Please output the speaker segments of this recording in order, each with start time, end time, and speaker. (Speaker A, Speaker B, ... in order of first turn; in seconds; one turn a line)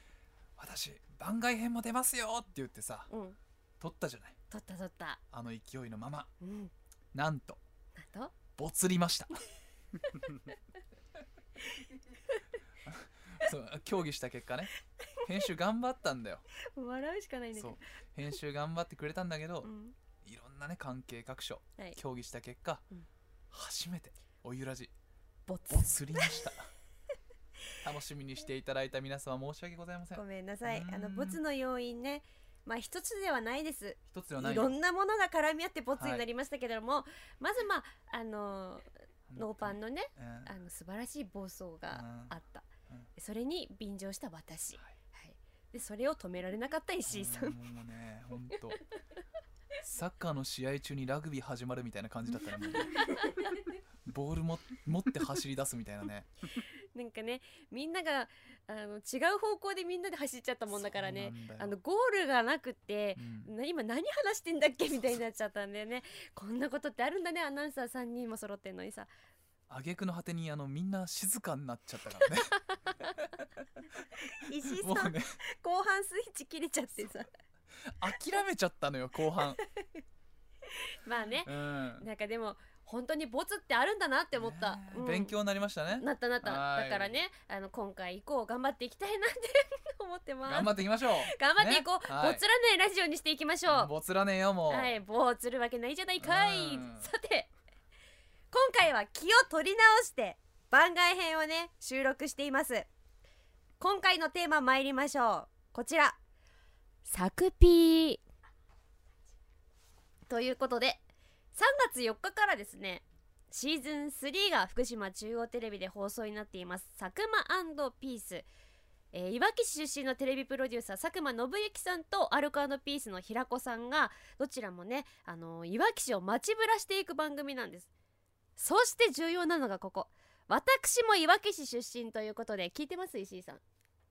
Speaker A: 0.6-3.1
Speaker B: 3.1-3.4
Speaker A: 3.8-4.3
Speaker B: 4.5-5.2
Speaker A: 5.3-6.3
Speaker B: 6.4-6.7
Speaker A: 7.1-7.6
Speaker B: 8.0-8.3
Speaker A: 8.6-9.4
Speaker B: 11.8-12.3
Speaker A: 12.8-16.4
Speaker B: 16.7-17.8
Speaker A: 17.6-19.7
Speaker B: 19.6-19.9
Speaker A: 20.2-22.8
Speaker A: 23.5-24.9
Speaker B: 25.5-26.4
Speaker A: 25.7-26.7
Speaker A: 27.8-31.4
Speaker B: 30.1-47.6
Speaker A: 34.1-34.8
Speaker A: 36.0-36.2
Speaker A: 39.3-40.5
Speaker A: 41.9-42.3
Speaker A: 47.1-48.8
Speaker A: 49.8-53.0
Speaker B: 53.0-53.6
Speaker A: 54.1-56.3
Speaker B: 56.9-69.1
Speaker A: 60.8-61.7
Speaker A: 63.1-63.5
Speaker A: 69.7-73.5
Speaker A: 74.2-75.3
Speaker B: 74.4-77.3
Speaker A: 77.9-79.6
Speaker B: 79.6-79.9
Speaker B: 81.0-85.3
Speaker A: 81.4-82.1
Speaker A: 84.3-87.2
Speaker B: 86.0-93.9
Speaker A: 90.5-92.4
Speaker A: 93.7-95.0
Speaker B: 94.7-97.5
Speaker A: 96.2-97.1
Speaker B: 98.5-102.9
Speaker B: 103.8-106.2
Speaker B: 107.0-108.2
Speaker B: 110.3-111.0
Speaker B: 111.5-118.5
Speaker B: 119.1-127.9
Speaker B: 128.6-133.6